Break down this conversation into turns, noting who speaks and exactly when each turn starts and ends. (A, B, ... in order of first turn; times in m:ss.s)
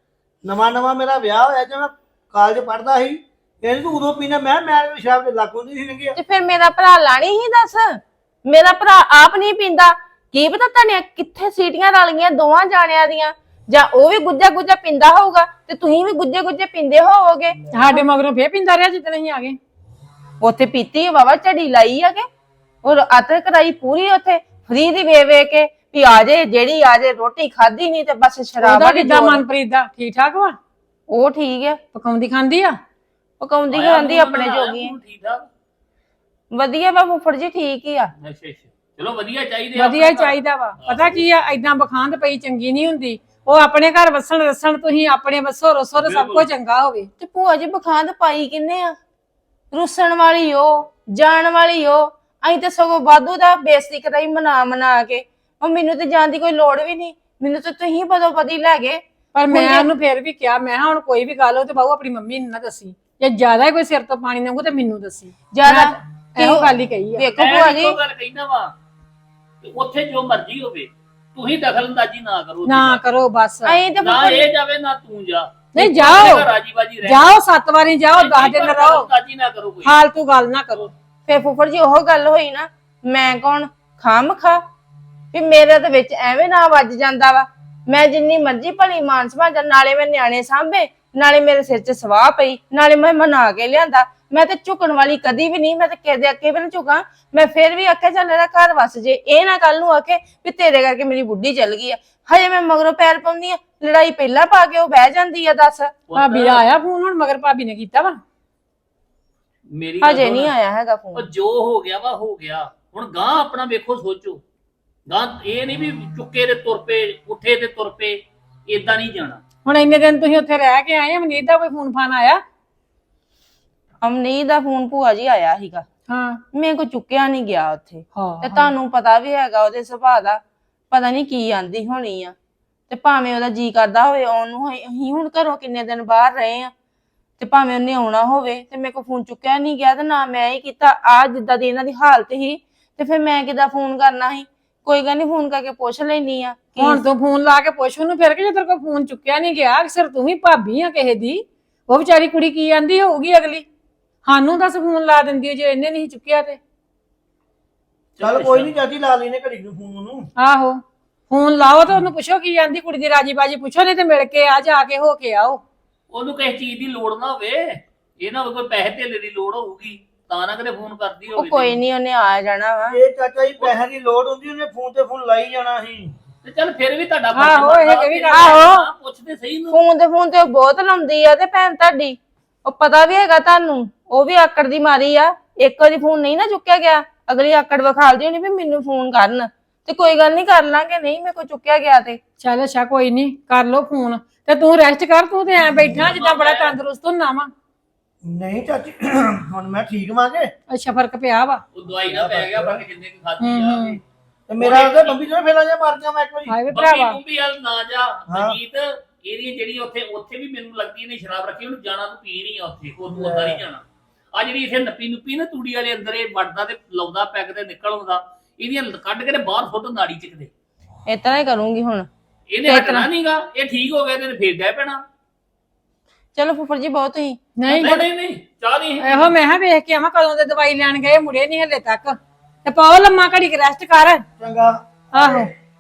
0:00.4-0:06.2 A
0:06.2-0:18.0 B
0:17.7-0:19.6 C
0:20.4-0:22.3 B
0:22.8-0:29.4 B
0:28.6-0:30.6 C
0:31.1-0:31.8 B
0:31.9-0:32.8 C
0:33.4-0:34.9 B
0:33.7-0:35.5 D
0:36.5-0:38.1 B
0:38.2-0:41.2 D
0:39.8-0:47.1 C
0:46.0-0:46.5 D
0:47.2-0:49.0 B
0:49.7-0:59.0 B
0:59.3-1:07.2 C
0:59.5-0:59.9 B
1:05.5-1:08.0 B
1:07.4-1:08.7 D
1:09.6-1:13.0 D
1:12.6-1:13.8 C
1:13.6-1:14.5 B
1:14.0-1:17.3 D
1:15.7-1:16.5 C
1:17.0-1:19.1 C
1:18.2-1:20.0 D
1:19.8-1:20.9 C
1:21.3-1:24.6 B
1:25.3-1:46.0 B
1:46.1-1:46.6 D
1:46.2-1:48.2 C
1:49.8-1:50.5 D
1:50.0-1:51.2 B
1:51.2-1:54.4 D
1:55.1-1:59.4 D
1:59.6-2:02.4 C
2:04.0-2:05.9 B
2:06.1-2:06.4 C
2:06.5-2:10.4 B
2:08.2-2:08.7 C
2:10.9-2:12.4 B
2:12.9-2:16.7 B
2:17.4-2:27.0 B
2:26.8-2:33.6 C
2:34.3-2:36.6 C
2:38.2-2:38.7 D
2:38.2-2:40.3 A
2:40.4-2:40.8 C
2:41.3-2:45.6 C
2:46.1-2:51.8 D
2:51.4-2:53.0 B
2:52.9-2:56.1 A
2:56.4-2:59.8 D
2:57.3-2:58.6 C
2:58.3-2:58.9 B
2:59.7-3:12.2 B
3:12.4-3:17.5 C
3:15.9-3:16.8 D
3:18.2-3:20.5 A
3:20.7-3:21.6 C
3:21.8-3:24.0 D
3:22.0-3:22.8 A
3:23.4-3:24.0 C
3:24.5-3:26.6 A
3:24.6-3:25.2 D
3:26.5-3:27.2 C
3:26.7-3:40.5 D
3:28.3-3:28.6 A
3:33.1-3:33.6 A
3:41.1-3:42.1 B
3:42.5-3:45.0 D
3:42.7-3:43.1 B
3:46.4-3:48.0 B
3:47.6-3:48.0 C
3:47.7-3:49.3 D
3:49.0-3:54.2 C
3:54.4-3:55.5 A
3:55.1-3:55.5 C